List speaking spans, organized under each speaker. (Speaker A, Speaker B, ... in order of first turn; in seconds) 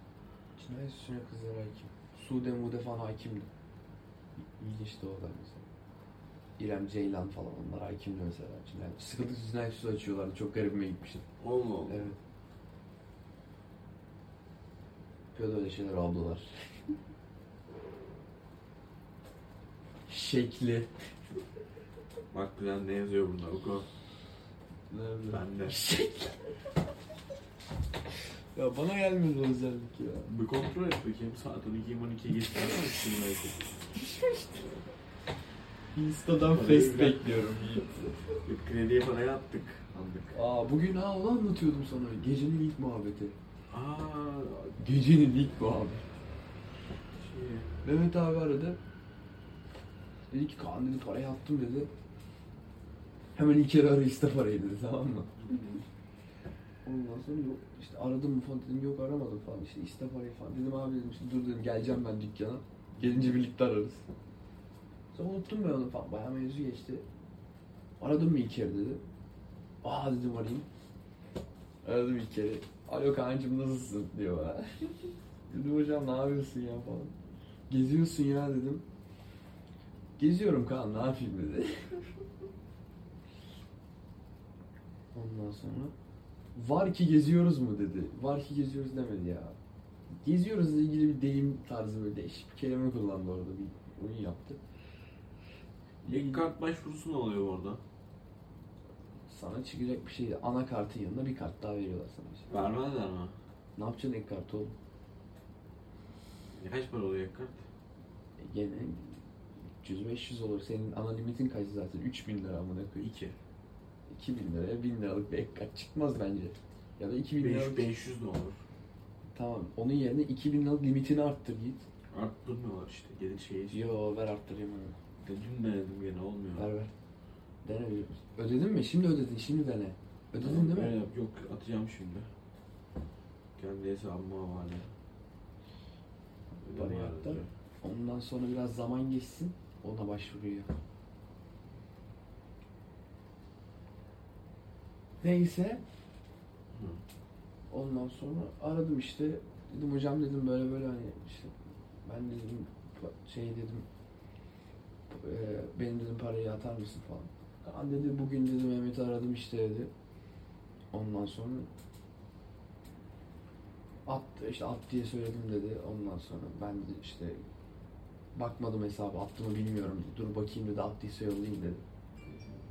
Speaker A: 0.6-3.5, 4.6-5.7, 6.6-11.3, 11.9-12.2, 15.3-16.5, 20.1-20.9, 24.9-26.4, 28.5-30.3, 34.0-34.5, 35.9-38.2, 40.3-43.4, 44.8-46.1, 47.8-48.8, 50.3-51.9, 53.3-55.6, 56.8-64.0, 65.1-67.0, 68.0-69.0, 69.8-70.7, 71.8-77.1, 77.7-78.8, 80.2-82.0, 85.1-85.9, 86.5-89.5, 90.1-94.6, 96.0-96.5, 99.3-102.7, 103.8-104.7, 108.4-113.1, 114.1-117.9, 119.3-121.8, 123.7-125.0, 126.5-126.9, 127.6-131.0, 136.6-140.7, 145.2-145.8, 147.7-151.5, 152.0-153.8, 155.1-159.9, 160.9-161.7, 164.1-167.4, 168.3-171.8
Speaker B: 11.4-12.1, 22.3-23.9, 25.3-25.8, 30.2-33.7, 36.5-37.6, 38.4-40.3, 43.7-44.8, 47.1-47.7, 55.4-55.8, 63.0-63.4, 96.0-97.8, 102.5-103.3, 106.5-107.6, 113.0-113.4, 117.4-118.6, 122.1-123.8, 125.2-126.7, 130.3-132.3, 133.6-134.9, 136.6-137.5, 146.7-147.0, 172.2-172.6